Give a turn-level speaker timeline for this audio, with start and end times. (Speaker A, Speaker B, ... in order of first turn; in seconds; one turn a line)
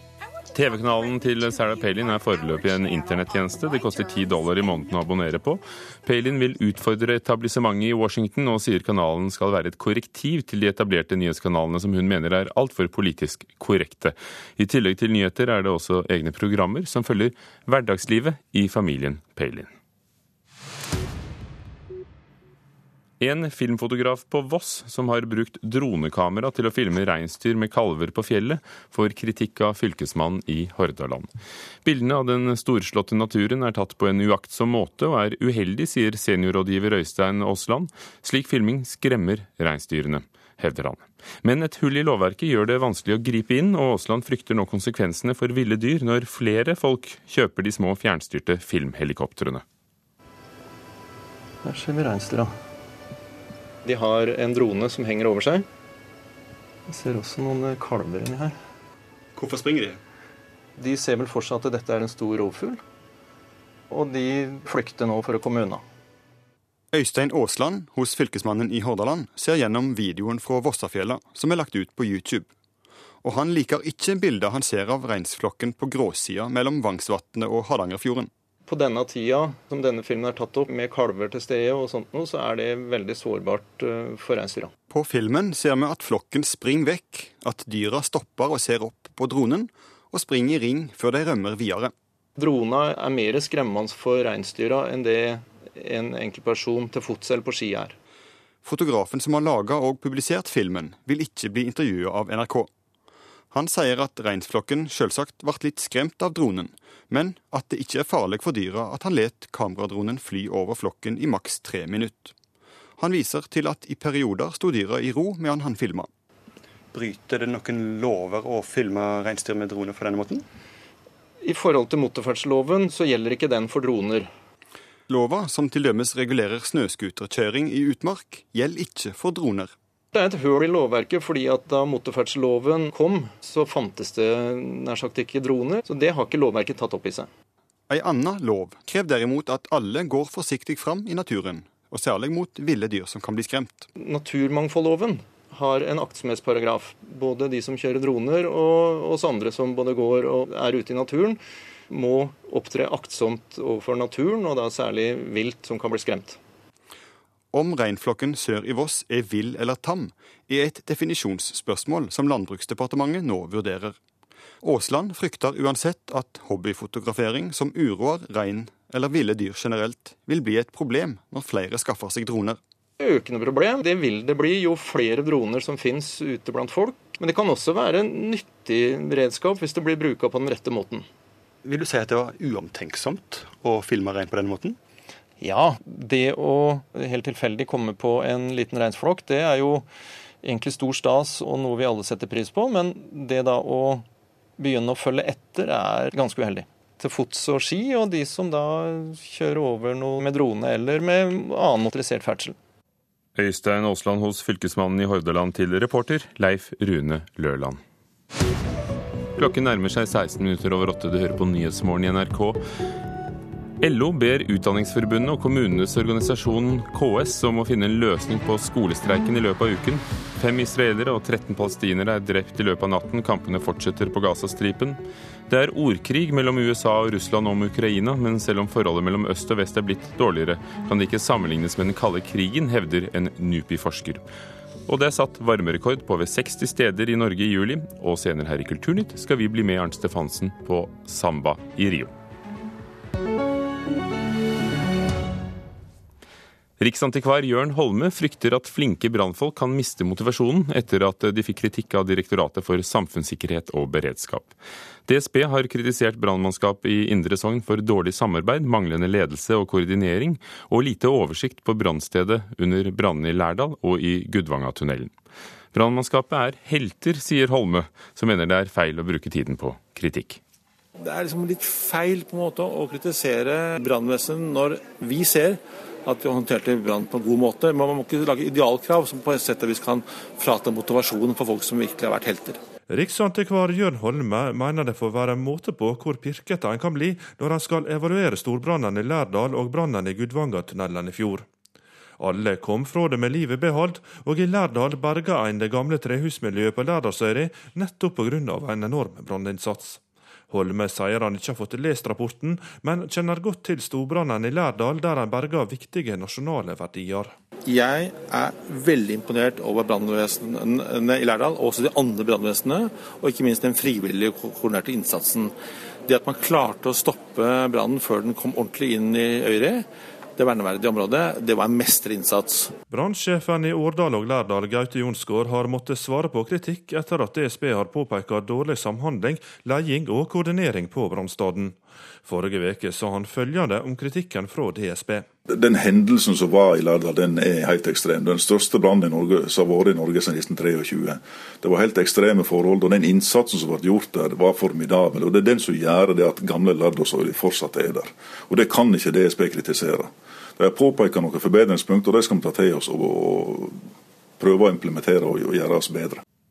Speaker A: 0.5-19.7
Speaker A: 23.2-31.3
Speaker A: 31.8-49.6
Speaker B: 51.6-52.5
Speaker B: 53.8-55.7
Speaker B: 56.9-58.6
Speaker C: 59.4-60.0
Speaker B: 60.8-62.8
Speaker B: 63.9-65.8
Speaker D: 66.9-72.5
Speaker D: 73.2-78.3
Speaker B: 78.7-84.7
Speaker D: 84.9-91.9
Speaker B: 92.4-98.0
Speaker D: 98.6-102.7
Speaker D: 103.5-112.3
Speaker D: 113.0-116.1
Speaker C: 116.9-120.5
Speaker B: 121.4-124.3
Speaker D: 125.1-129.7
Speaker B: 130.1-137.3
Speaker D: 137.9-143.9
Speaker B: 144.0-156.4
Speaker D: 157.5-164.0
Speaker D: 164.6-172.6
Speaker B: 173.0-181.1
Speaker C: 181.6-184.8
Speaker B: 185.4-189.9
Speaker B: 190.4-194.1
Speaker B: 194.6-202.6
Speaker A: 203.4-207.8
Speaker A: 209.4-212.6
Speaker A: 213.8-234.2
Speaker A: 234.9-242.1
Speaker A: 246.8-254.5
Speaker A: 255.1-265.1
Speaker A: 265.7-270.4
Speaker E: 271.0-282.6
Speaker F: 282.9-291.5
Speaker F: 292.2-307.3
Speaker E: 307.6-315.5
Speaker E: 316.1-319.9
Speaker E: 320.4-322.8
Speaker F: 322.9-335.3
Speaker G: 335.5-353.8
Speaker G: 354.4-356.2